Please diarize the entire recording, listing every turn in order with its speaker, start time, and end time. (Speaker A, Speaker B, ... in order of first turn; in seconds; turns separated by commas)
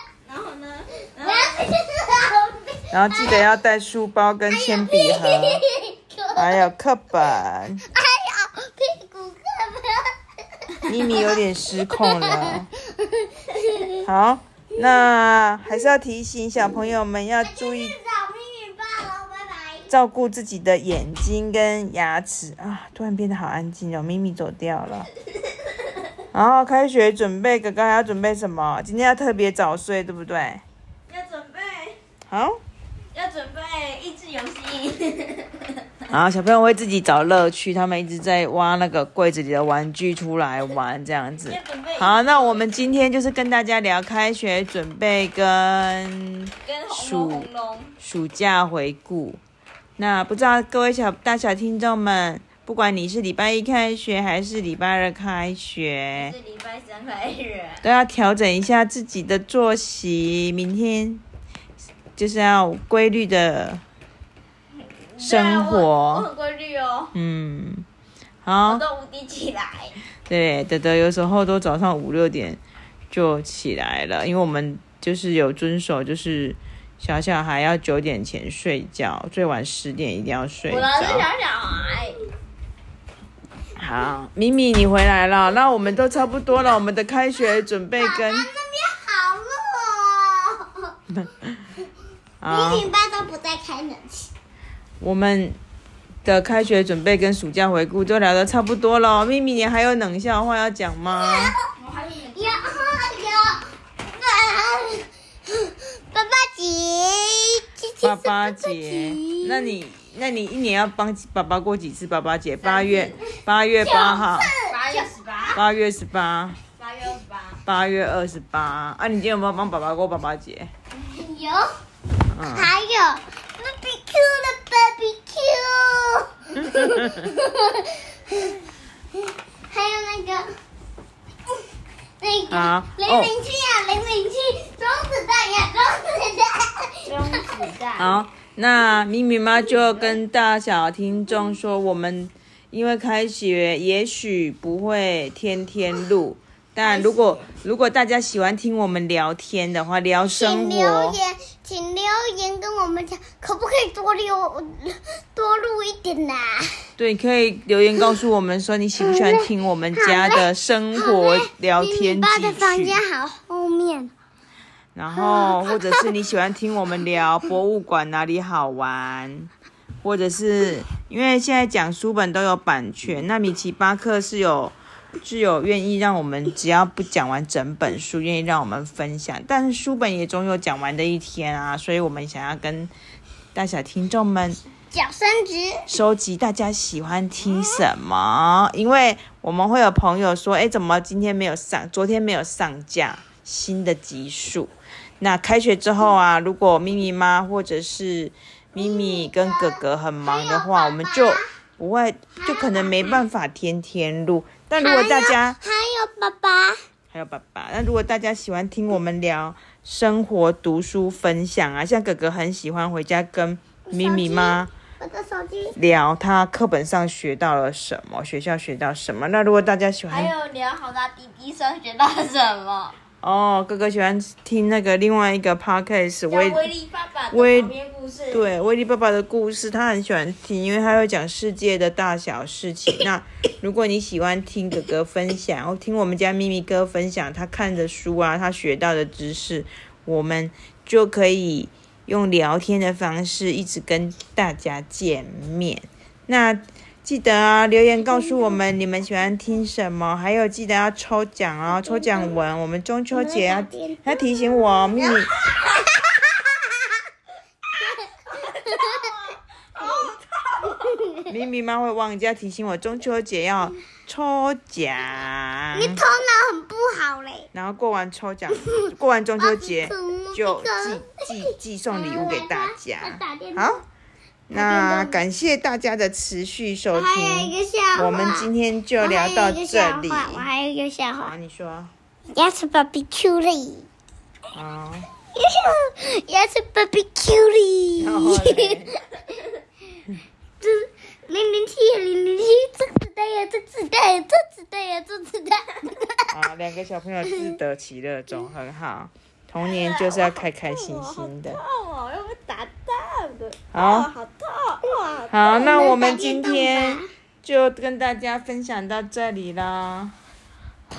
Speaker A: 0.2-1.7, Speaker B: 1.2-3.4, Speaker C: 2.9-5.6, Speaker B: 4.5-6.6, Speaker C: 6.3-7.8, Speaker B: 7.9-11.4, Speaker C: 10.9-12.7, Speaker B: 11.9-14.1, Speaker C: 14.0-17.9, Speaker B: 17.4-19.9, Speaker C: 19.9-25.1, Speaker C: 26.3-30.6, Speaker A: 31.1-32.0, Speaker C: 32.3-32.6, Speaker A: 33.1-35.7, Speaker C: 36.1-49.4, Speaker A: 41.4-42.8, Speaker A: 46.6-47.9, Speaker C: 50.0-56.4, Speaker A: 56.1-57.8, Speaker C: 57.8-61.2, Speaker C: 62.2-63.8, Speaker A: 65.1-67.1, Speaker C: 65.2-66.3, Speaker C: 67.1-67.9, Speaker C: 68.4-68.9, Speaker A: 68.7-70.0, Speaker C: 70.3-72.6, Speaker C: 73.1-81.3, Speaker A: 80.7-82.2, Speaker C: 83.8-88.5, Speaker B: 88.0-90.9, Speaker C: 91.1-91.7, Speaker C: 92.4-92.9, Speaker B: 92.5-94.3, Speaker C: 95.0-95.6, Speaker C: 96.2-101.5, Speaker B: 101.1-101.6, Speaker A: 101.7-102.9, Speaker B: 102.3-109.8, Speaker C: 108.0-114.5, Speaker A: 112.6-113.2, Speaker B: 113.8-115.1, Speaker A: 114.7-115.6, Speaker C: 115.5-116.6, Speaker A: 116.8-117.6, Speaker C: 117.7-120.7, Speaker B: 121.0-121.7, Speaker C: 122.3-122.7, Speaker B: 122.5-128.6, Speaker C: 126.6-127.3, Speaker B: 129.7-130.5, Speaker B: 132.2-137.4, Speaker C: 132.5-133.3, Speaker A: 137.0-138.2, Speaker C: 138.0-151.2, Speaker A: 139.7-140.2, Speaker B: 146.8-147.4, Speaker B: 150.3-156.8, Speaker C: 157.0-163.0, Speaker B: 159.0-164.1, Speaker C: 164.9-169.5, Speaker B: 165.1-166.1, Speaker C: 170.0-182.9, Speaker C: 183.5-184.6, Speaker B: 184.9-185.9, Speaker C: 185.9-205.6, Speaker B: 198.7-201.5, Speaker B: 202.4-203.2, Speaker B: 204.8-206.8, Speaker C: 207.1-214.7, Speaker B: 213.9-215.8, Speaker C: 215.8-220.3, Speaker A: 220.1-222.9, Speaker C: 223.2-226.7, Speaker A: 226.3-228.4, Speaker C: 227.3-227.8, Speaker C: 228.3-255.3, Speaker B: 248.1-248.6, Speaker B: 251.7-252.3, Speaker B: 253.1-256.8, Speaker B: 257.7-259.2, Speaker A: 258.4-260.8, Speaker B: 259.8-261.2, Speaker C: 261.3-266.0, Speaker B: 265.7-267.5, Speaker C: 267.5-273.8, Speaker B: 268.5-273.8, Speaker C: 274.5-280.5, Speaker B: 274.5-275.2, Speaker B: 276.9-281.3, Speaker C: 281.2-281.9, Speaker B: 282.3-283.9, Speaker C: 284.5-285.1, Speaker B: 285.3-289.0, Speaker C: 288.0-289.0, Speaker B: 290.6-296.3, Speaker C: 296.3-301.6, Speaker A: 299.6-305.9, Speaker C: 303.7-304.1, Speaker C: 305.3-310.1, Speaker B: 305.5-307.1